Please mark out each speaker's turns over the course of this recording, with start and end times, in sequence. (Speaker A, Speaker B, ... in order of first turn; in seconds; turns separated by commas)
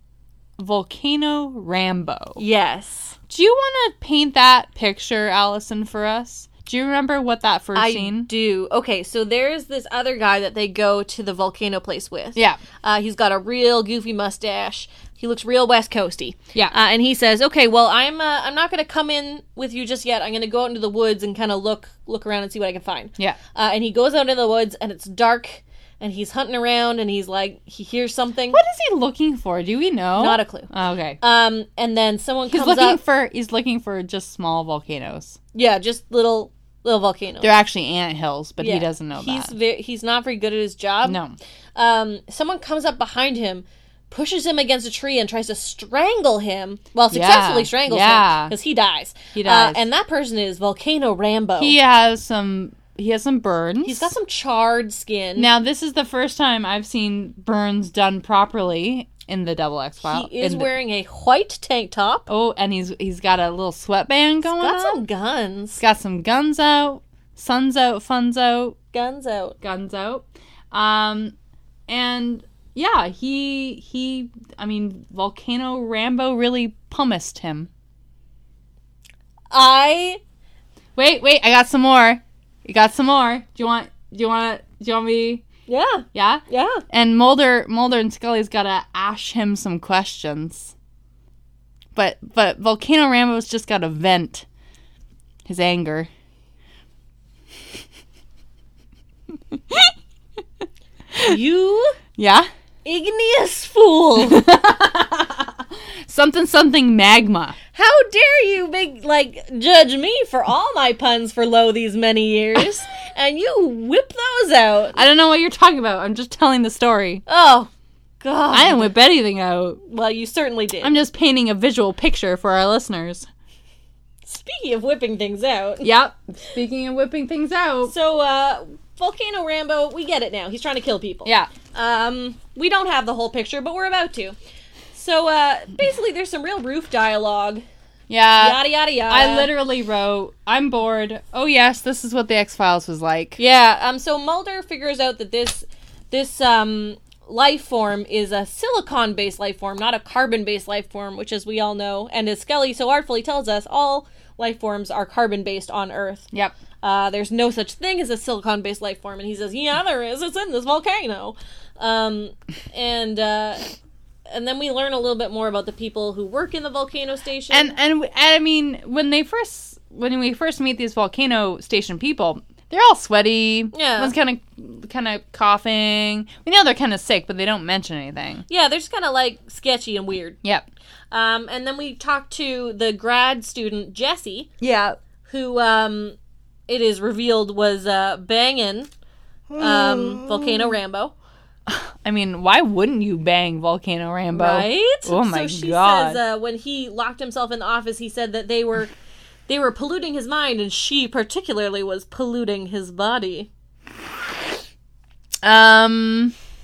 Speaker A: 0.6-2.4, Speaker B: 2.4-3.2, Speaker A: 3.3-8.3, Speaker B: 7.7-28.6, Speaker A: 12.3-12.6, Speaker A: 28.5-31.2, Speaker B: 30.2-30.7, Speaker B: 31.2-33.0, Speaker A: 32.5-35.4, Speaker B: 35.5-37.5, Speaker A: 37.4-39.5, Speaker B: 38.6-41.2, Speaker A: 41.0-41.4, Speaker B: 41.7-51.7, Speaker A: 47.1-48.5, Speaker A: 49.3-49.8, Speaker A: 51.6-54.1, Speaker B: 53.8-55.5, Speaker A: 55.4-60.7, Speaker B: 60.0-62.3, Speaker A: 62.3-65.0, Speaker B: 64.4-65.8, Speaker A: 65.8-68.8, Speaker B: 68.9-69.6, Speaker A: 69.6-71.3, Speaker A: 71.9-77.7, Speaker B: 79.5-80.2, Speaker A: 81.0-85.4, Speaker B: 85.7-86.8, Speaker A: 86.1-90.7, Speaker A: 91.9-94.5, Speaker A: 95.5-96.1, Speaker A: 99.5-99.9, Speaker B: 101.2-102.0, Speaker A: 102.2-102.5, Speaker B: 102.8-104.4, Speaker A: 104.2-107.6, Speaker B: 107.7-115.0, Speaker A: 115.0-117.2, Speaker B: 117.3-117.7, Speaker B: 118.2-118.9, Speaker A: 118.5-119.8, Speaker B: 119.8-120.9, Speaker A: 120.8-123.3, Speaker B: 124.2-125.9, Speaker A: 125.8-127.9, Speaker B: 127.8-134.3, Speaker A: 131.2-131.5, Speaker B: 134.9-137.6, Speaker A: 138.1-143.4, Speaker B: 138.4-139.5, Speaker B: 143.4-156.3, Speaker B: 156.8-163.7, Speaker B: 164.3-167.7, Speaker A: 167.5-178.4, Speaker B: 173.7-174.1, Speaker B: 178.5-180.4, Speaker B: 181.1-184.5, Speaker A: 184.6-185.0, Speaker B: 185.2-186.2, Speaker B: 186.7-188.9, Speaker A: 189.5-190.6, Speaker B: 189.6-191.1, Speaker A: 191.7-196.2, Speaker B: 194.3-198.9, Speaker B: 199.5-203.5, Speaker A: 205.4-206.3